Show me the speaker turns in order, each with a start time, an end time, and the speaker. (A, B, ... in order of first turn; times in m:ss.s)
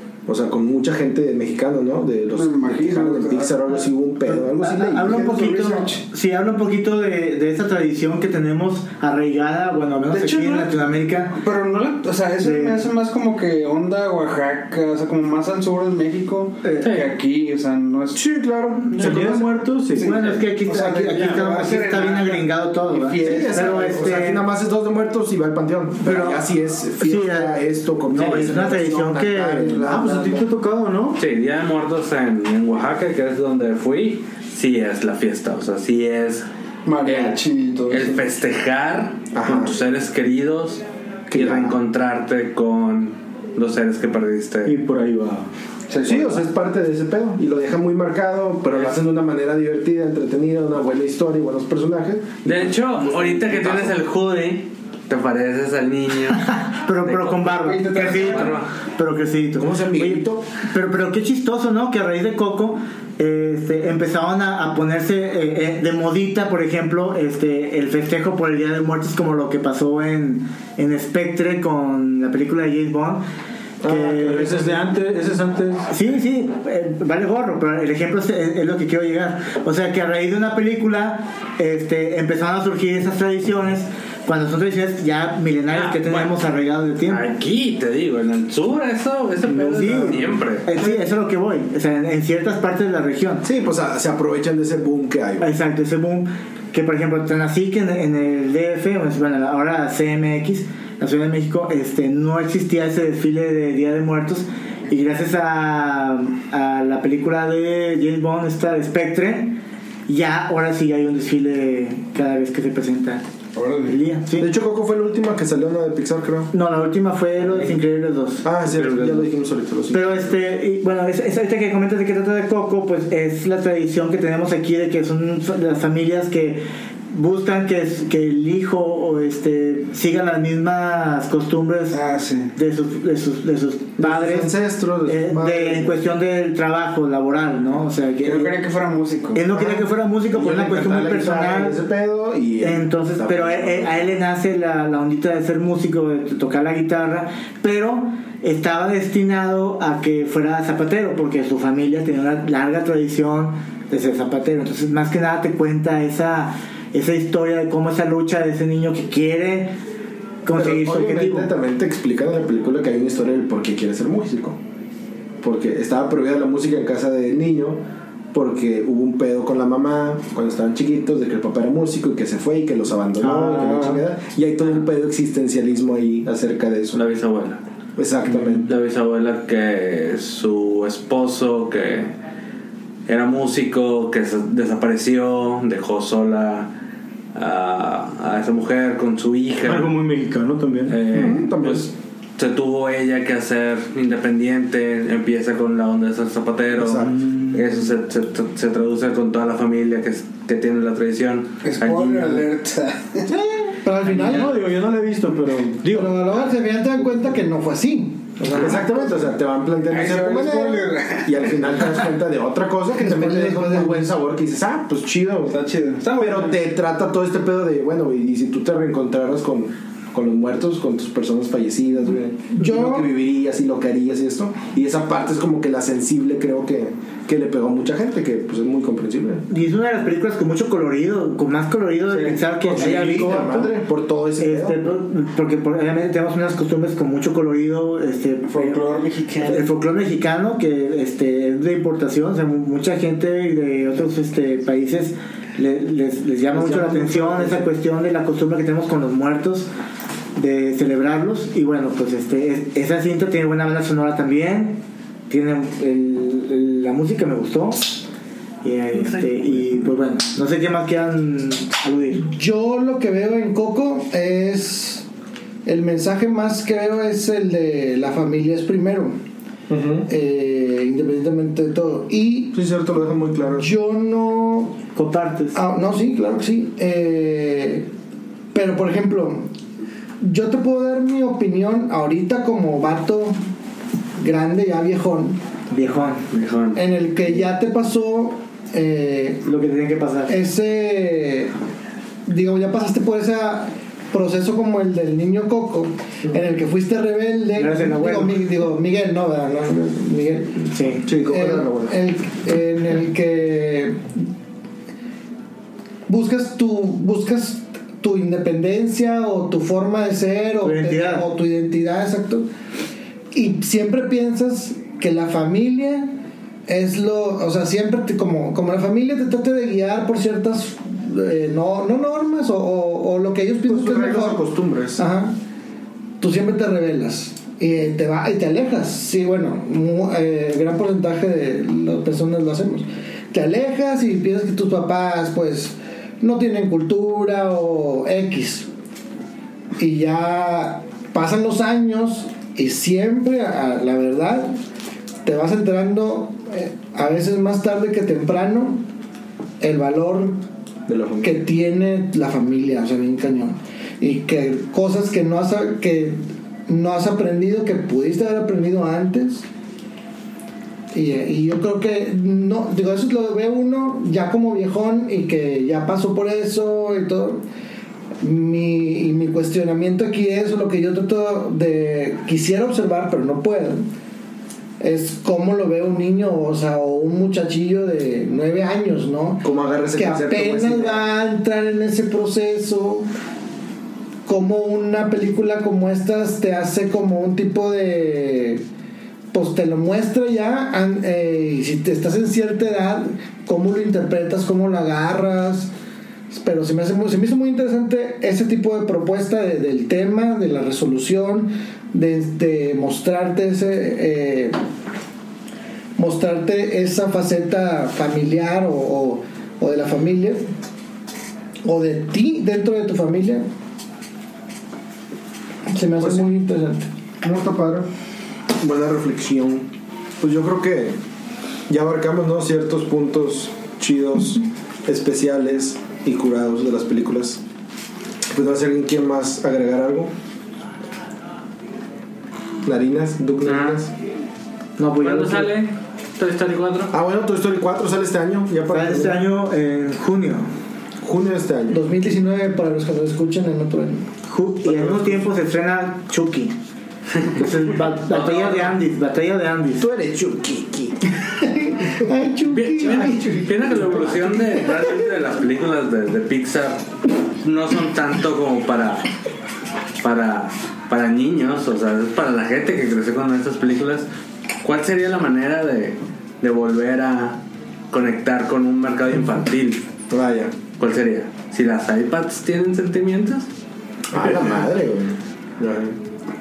0:00.3-0:05.3 A
0:02.3-0:03.7 B
0:04.3-0:11.4 C
0:05.0-0:06.0 B
0:10.1-0:10.7 B
0:11.4-0:18.2 B
0:12.4-0:12.8 C
0:16.6-0:16.9 C
0:18.1-0:19.5 A
0:18.9-0:20.2 D
0:19.0-0:19.4 B
0:20.0-0:24.1 B
0:20.0-0:24.4 C
0:23.2-0:30.5 A
0:26.0-0:26.5 C
0:27.0-0:29.9 C
0:29.8-0:31.2 D
0:31.2-0:36.5 E
0:36.8-0:38.3 B
0:37.0-0:44.8 E
0:39.3-0:39.7 A
0:41.3-0:41.8 A
0:44.6-0:45.5 D
0:45.9-0:46.4 B
0:46.0-0:53.9 A
0:52.4-0:58.7 E
0:56.5-1:13.2 C
0:57.6-0:58.6 B
0:59.6-1:00.5 A
1:13.8-1:14.9 A
1:13.8-1:14.6 C
1:14.3-1:15.9 D
1:15.9-1:27.3 C
1:25.7-1:26.3 E
1:27.1-1:30.7 E
1:29.7-1:33.4 C
1:33.4-1:35.5 A
1:35.4-1:53.2 C
1:53.6-1:54.0 B
1:53.9-1:54.5 C
1:54.4-1:56.5 A
1:56.5-1:58.4 C
1:58.4-2:00.3 A
1:58.7-1:59.2 E
1:59.9-2:12.0 C
2:11.9-2:12.5 B
2:12.5-2:14.5 C
2:14.0-2:16.0 A
2:15.0-2:18.5 C
2:18.2-2:19.5 B
2:19.3-2:21.8 C
2:19.5-2:24.0 A
2:22.6-2:39.8 C
2:40.4-2:41.5 C
2:40.5-2:44.6 A
2:45.4-2:47.8 A
2:48.3-2:57.0 A
2:53.2-2:54.0 C
2:56.9-2:57.6 E
2:58.0-2:58.7 A
2:58.7-3:02.1 E
3:03.1-3:06.7 E
3:07.4-3:09.9 E
3:09.6-3:11.1 D
3:10.9-3:22.5 E
3:11.1-3:11.9 A
3:16.8-3:17.2 A
3:17.1-3:17.6 D
3:21.6-3:23.3 B
3:23.7-3:24.6 F
3:24.1-3:26.1 D
3:25.9-3:28.8 F
3:28.4-3:35.6 A
3:29.9-3:32.0 B
3:33.0-3:34.1 F
3:35.5-3:36.7 B
3:36.2-3:49.5 A
3:42.5-3:43.1 F
3:49.5-3:53.7 C
3:52.2-3:53.4 B
3:52.2-3:54.8 A
3:54.4-4:09.7 C
3:58.5-3:59.7 B
4:06.5-4:07.7 A
4:10.4-4:18.0 C
4:18.6-4:22.3 C
4:22.3-4:25.0 F
4:25.7-4:29.2 F
4:29.7-4:30.1 A
4:30.1-4:32.6 F
4:32.5-4:33.7 A
4:33.6-4:34.8 F
4:35.0-4:35.6 C
4:35.5-4:37.9 F
4:38.5-4:39.5 F
4:40.2-4:43.4 F
4:44.2-4:45.4 F
4:45.7-4:46.3 C
4:46.3-4:46.8 E
4:46.7-4:49.4 F
4:49.4-4:50.4 C
4:50.3-4:51.5 F
4:52.3-5:00.6 F
4:57.6-4:58.4 C
5:00.6-5:01.1 C
5:01.1-5:02.0 A
5:01.2-5:04.1 F
5:06.1-5:12.5 F
5:10.6-5:11.2 C
5:13.3-5:16.2 F
5:16.7-5:24.4 F
5:23.6-5:25.0 A
5:25.0-5:25.4 F
5:26.2-5:38.7 F
5:39.8-5:44.6 F
5:45.2-5:48.8 F
5:49.6-5:50.4 F
5:50.9-5:51.4 A
5:51.2-5:59.5 F
6:00.9-6:07.4 F
6:08.2-6:13.8 F
6:14.8-6:23.1 F
6:19.4-6:21.1 A
6:24.3-6:28.6 F
6:29.3-6:35.7 F
6:36.3-6:44.6 F
6:46.0-6:50.4 F
6:51.6-6:53.5 F
6:55.7-6:56.9 F
6:56.0-6:56.2 A
6:57.2-6:57.9 A
6:58.6-6:59.7 A
7:00.2-7:01.0 A
7:01.7-7:07.4 A
7:08.3-7:10.1 A
7:12.6-7:13.9 A
7:13.4-7:13.8 E
7:14.8-7:15.6 C
7:15.0-7:16.9 E
7:16.9-7:19.2 A
7:18.7-7:20.5 C
7:21.0-7:21.8 A
7:21.7-7:24.1 F
7:24.3-7:26.6 C
7:24.7-7:25.1 A
7:27.3-7:29.9 C
7:28.1-7:28.8 E
7:29.8-7:31.1 A
7:31.4-7:33.1 F
7:32.5-7:36.9 E
7:32.8-7:34.7 A
7:37.4-7:39.1 E
7:40.0-7:44.1 E
7:44.6-7:47.4 E
7:47.9-7:49.8 E
7:50.1-7:50.6 A
7:50.8-7:53.5 E
7:54.1-7:56.0 A